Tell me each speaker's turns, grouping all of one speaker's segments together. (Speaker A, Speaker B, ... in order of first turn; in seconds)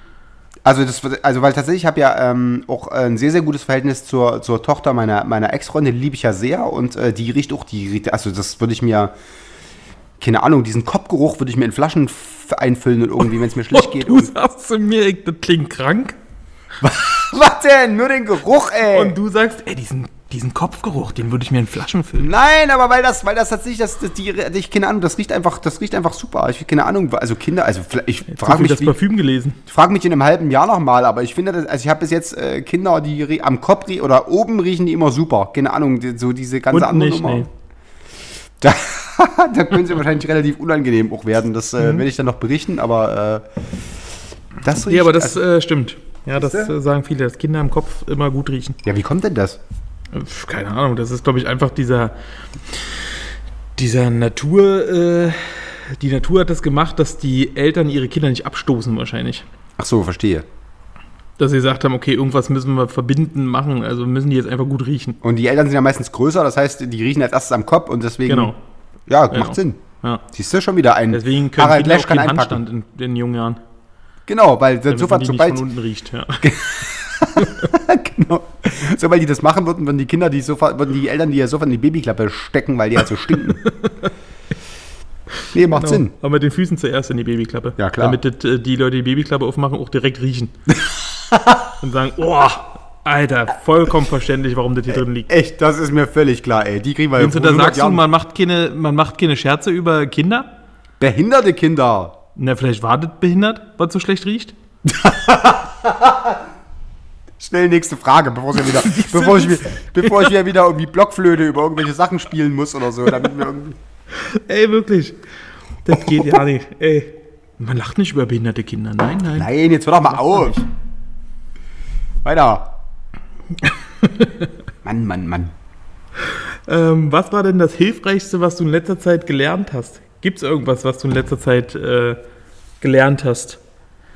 Speaker A: 0.6-9.1, 10.2-14.3, 16.8-19.2, 22.2-28.9, 29.7-37.5, 38.6-43.5, 44.6-45.4, 46.3-46.7, 48.8-49.6, 59.8-60.5, 65.2-68.5, 69.1-69.8, 70.3-72.6, 74.3-75.6, 76.4-83.6, 85.5-86.1, 87.8-88.2, 90.7-91.7, 95.3-98.0, 101.0-102.2, 104.8-106.4, 107.4-113.8, 116.0-116.4, 119.3-120.6, 122.2-122.7, 124.8-125.5
Speaker B: 13.7-16.2, 18.9-22.3, 28.3-29.6, 36.7-37.5, 41.8-42.0, 44.8-48.8, 50.1-52.1, 52.7-53.0, 53.8-59.4, 61.4-65.2, 68.3-68.5, 69.3-70.2, 71.1-73.6, 74.9-76.6, 77.4-77.7, 83.7-84.0, 85.7-90.5, 91.8-95.3, 97.2-100.5, 102.3-104.5, 108.6-110.3, 114.1-115.2, 115.8-119.5, 120.1-120.6, 123.6-124.3, 126.7-132.2, 132.8-133.6